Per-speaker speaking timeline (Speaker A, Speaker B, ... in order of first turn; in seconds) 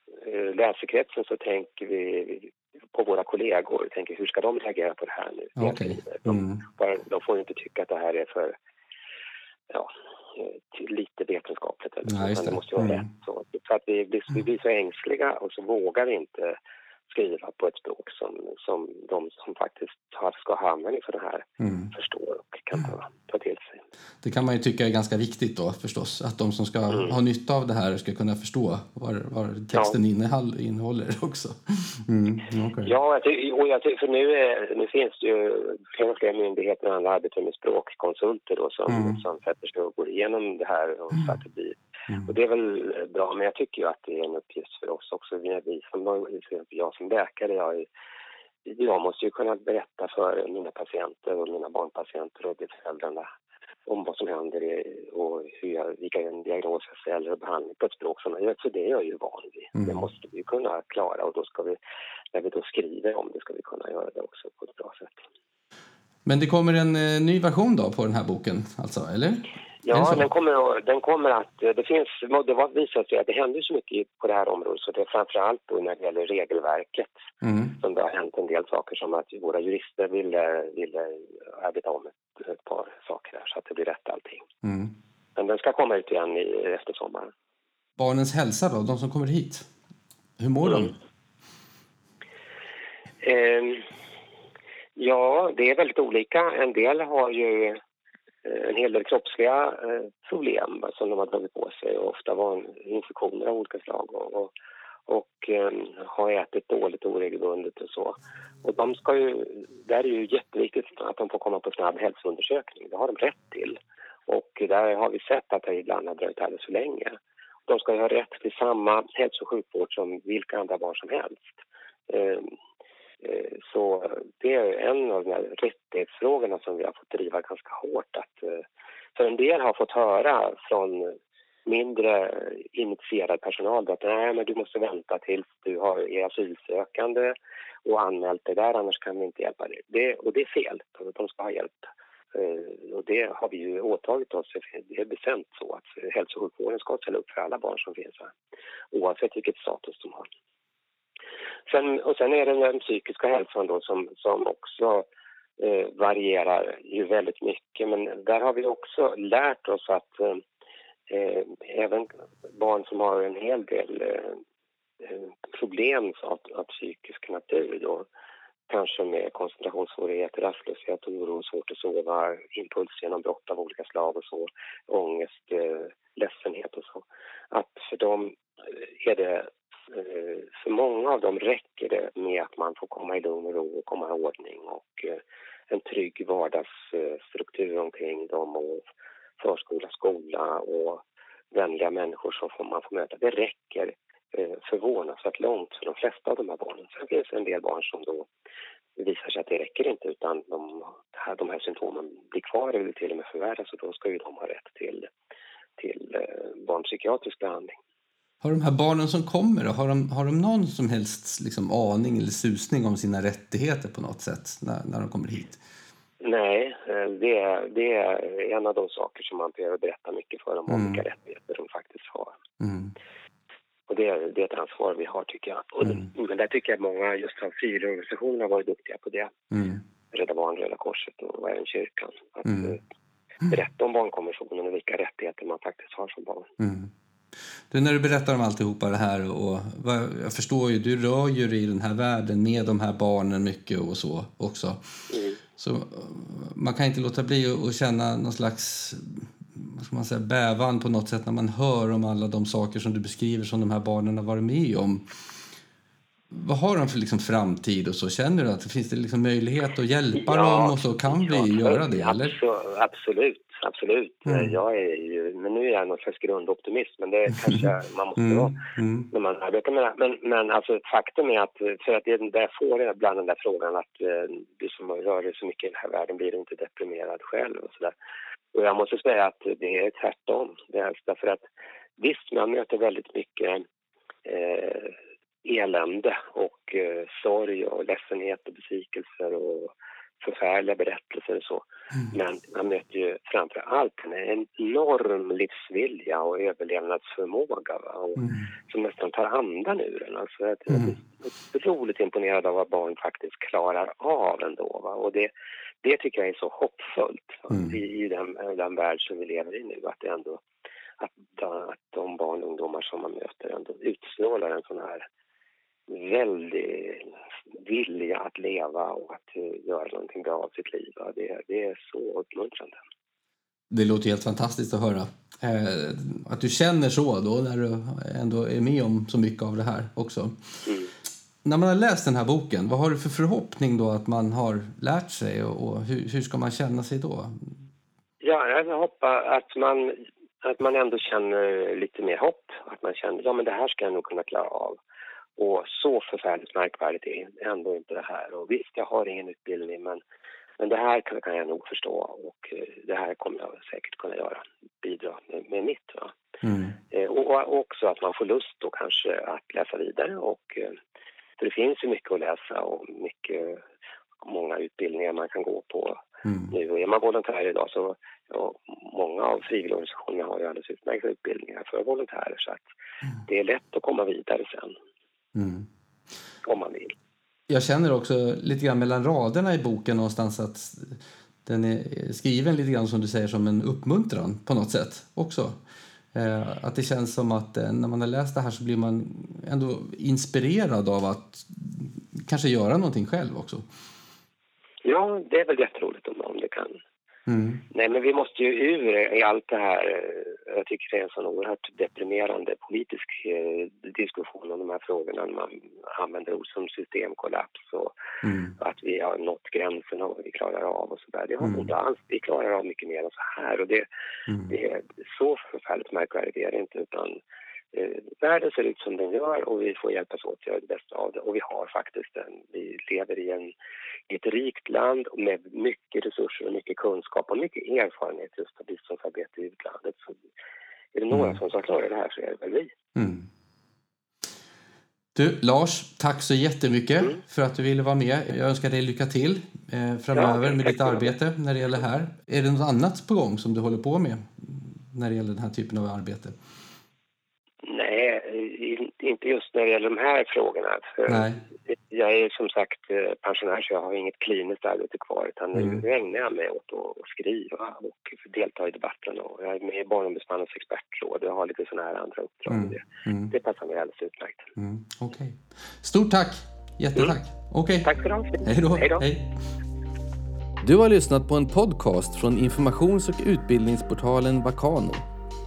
Speaker A: 0.2-8.6, 9.7-16.6, 17.1-23.8, 26.9-27.2, 32.8-47.9, 48.6-53.3, 53.9-61.8, 62.3-65.2, 69.8-77.2, 77.8-84.5, 85.3-87.3, 90.6-90.9, 93.2-93.9, 95.0-97.8, 98.4-104.5, 105.1-121.5, 122.1-122.5, 123.2-148.3, 148.9-150.3, 151.7-155.1, 155.6-160.4, 161.1-164.4, 165.0-168.1, 168.7-188.8, 189.4-198.3, 198.9-205.1, 205.8-207.8, 216.2-222.4, 223.9-229.3, 230.1-232.8, 233.5-236.5, 245.1-245.4, 260.1-277.9, 278.5-281.4, 282.0-283.6, 284.2-305.3, 305.8-310.4, 311.0-315.1, 315.9-322.8, 330.6-330.9, 338.2-344.8, 345.4-350.0, 350.6-356.1, 356.9-360.8, 361.4-363.7, 364.2-372.7, 373.2-374.8, 376.4-376.9, 394.8-396.8, 397.7-407.9, 408.6-413.9, 414.5-417.2, 417.7-423.5, 424.1-430.2, 430.9-432.7, 440.1-441.1, 447.6-464.5, 467.8-469.0
Speaker B: 5.6-6.6, 12.1-13.0, 21.6-21.9, 24.2-32.9, 38.9-39.2, 59.8-60.0, 66.2-70.2, 77.4-77.8, 84.6-84.9, 88.0-89.7, 90.4-90.9, 208.4-215.6, 220.7-221.0, 222.6-222.9, 229.5-229.8, 232.4-232.7, 236.6-236.9, 237.7-244.8, 245.6-255.0, 256.3-262.3, 264.2-264.5, 268.2-269.1, 298.2-298.4, 323.7-330.3, 331.4-337.5, 356.4-356.8, 366.2-366.5, 375.3-375.7, 377.5-385.6, 386.1-393.6, 397.3-397.6, 408.2-408.5, 411.4-411.7, 414.3-414.5, 431.1-431.4, 432.9-433.3, 435.1-446.4, 451.1-451.4, 455.5-455.8, 462.5-463.3, 464.6-467.9, 468.4-469.3, 470.6-475.1